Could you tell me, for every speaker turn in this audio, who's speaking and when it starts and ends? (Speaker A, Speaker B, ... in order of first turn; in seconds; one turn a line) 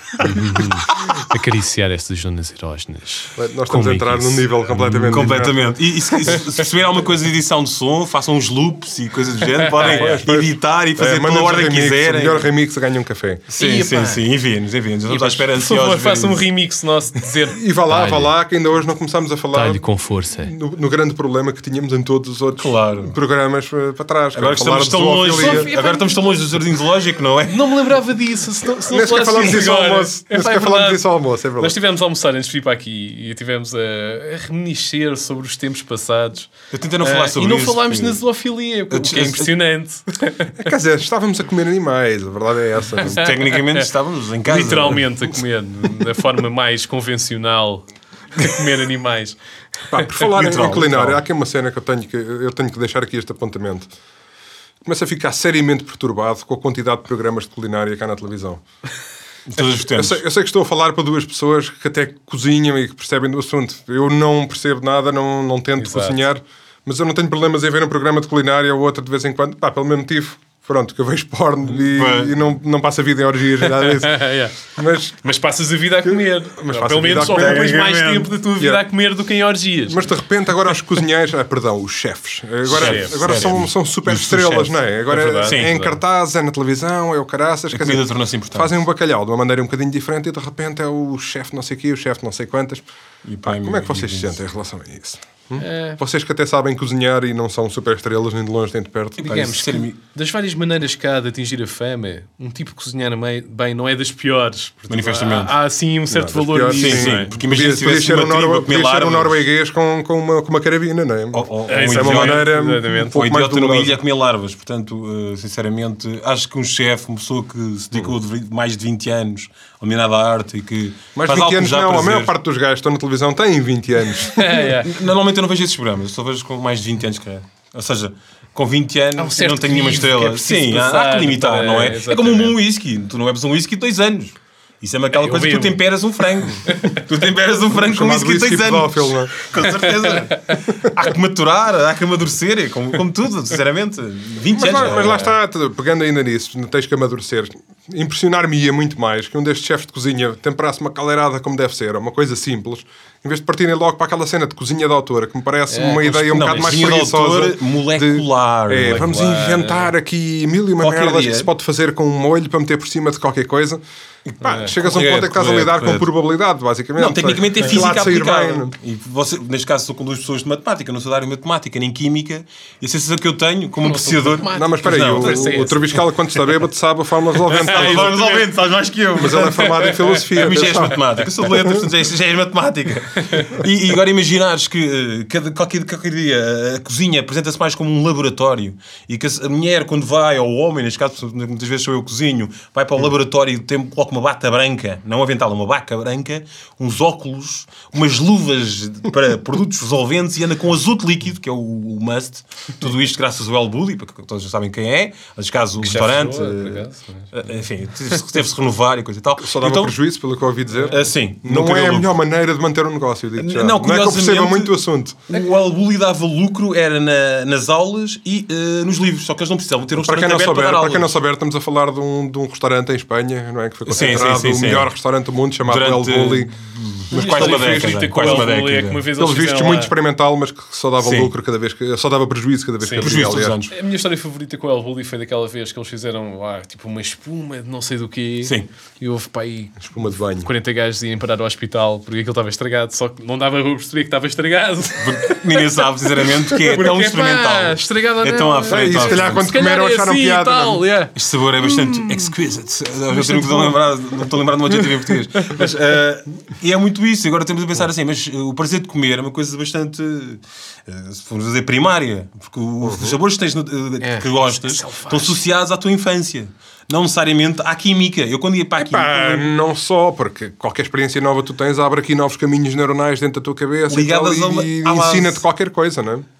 Speaker A: 0.2-4.5
Speaker B: 3.4-5.7
Speaker C: 4.7-12.5
Speaker A: 9.7-10.2
Speaker B: 9.8-13.4
Speaker C: 13.5-16.4
Speaker A: 13.6-14.2
Speaker A: 15.1-18.3
Speaker B: 17.5-19.8
Speaker A: 19.5-20.5
Speaker B: 20.4-25.7
Speaker C: 22.6-23.1
Speaker C: 24.3-27.8
Speaker A: 25.3-26.4
Speaker A: 27.4-40.6
Speaker B: 28.9-31.8
Speaker C: 36.7-38.2
Speaker C: 38.9-39.5
Speaker B: 40.6-43.2
Speaker C: 43.0-45.2
Speaker A: 43.0-43.9
Speaker A: 44.4-49.4
Speaker B: 49.9-53.9
Speaker C: 50.2-51.2
Speaker B: 54.8-58.6
Speaker C: 59.5-60.2
Speaker B: 59.8-75.2
Speaker A: 65.8-66.2
Speaker C: 71.8-72.4
Speaker A: 73.6-74.6
Speaker A: 75.2-80.1
Speaker B: 76.0-77.7
Speaker C: 77.1-78.3
Speaker B: 79.9-92.8
Speaker C: 82.7-85.8
Speaker A: 82.7-83.4
Speaker A: 85.1-86.0
Speaker C: 87.7-88.7
Speaker C: 93.2-94.4
Speaker B: 93.4-99.3
Speaker A: 95.5-96.0
Speaker A: 99.2-107.3
Speaker C: 99.2-100.0
Speaker C: 104.9-105.5
Speaker B: 106.1-114.0
Speaker C: 106.7-109.4
Speaker C: 111.3-112.5
Speaker A: 111.7-113.2
Speaker C: 113.1-122.3
Speaker B: 121.1-124.7
Speaker A: 124.3-125.0
Speaker C: 124.8-145.2
Speaker A: 129.2-132.6
Speaker A: 135.1-135.8
Speaker A: 136.6-137.1
Speaker B: 137.7-139.3
Speaker A: 139.7-140.6
Speaker B: 144.5-163.8
Speaker A: 144.9-145.3
Speaker A: 155.7-156.7
Speaker C: 156.1-159.3
Speaker A: 158.8-159.9
Speaker C: 160.8-161.5
Speaker C: 164.3-166.1
Speaker B: 164.4-168.7
Speaker A: 164.4-164.7
Speaker C: 166.9-175.8
Speaker A: 173.8-175.9
Speaker B: 174.5-178.3
Speaker A: 177.5-178.4
Speaker C: 177.6-209.9
Speaker B: 179.2-181.8
Speaker A: 179.5-180.2
Speaker A: 183.2-183.5
Speaker A: 205.8-207.3
Speaker B: 209.4-215.3
Speaker C: 210.9-212.1
Speaker C: 213.4-214.7
Speaker C: 215.3-221.1
Speaker B: 220.0-226.5
Speaker C: 223.8-224.9
Speaker C: 225.6-229.0
Speaker B: 227.1-228.5
Speaker A: 227.1-229.9
Speaker B: 229.2-233.6
Speaker C: 231.0-231.3
Speaker A: 232.8-252.3
Speaker C: 233.0-233.7
Speaker B: 239.8-240.5
Speaker C: 245.0-249.5
Speaker B: 248.7-250.8
Speaker C: 251.1-269.5
Speaker A: 253.1-253.7
Speaker B: 262.8-263.2
Speaker A: 264.0-265.4
Speaker B: 268.8-276.2
Speaker C: 273.9-275.4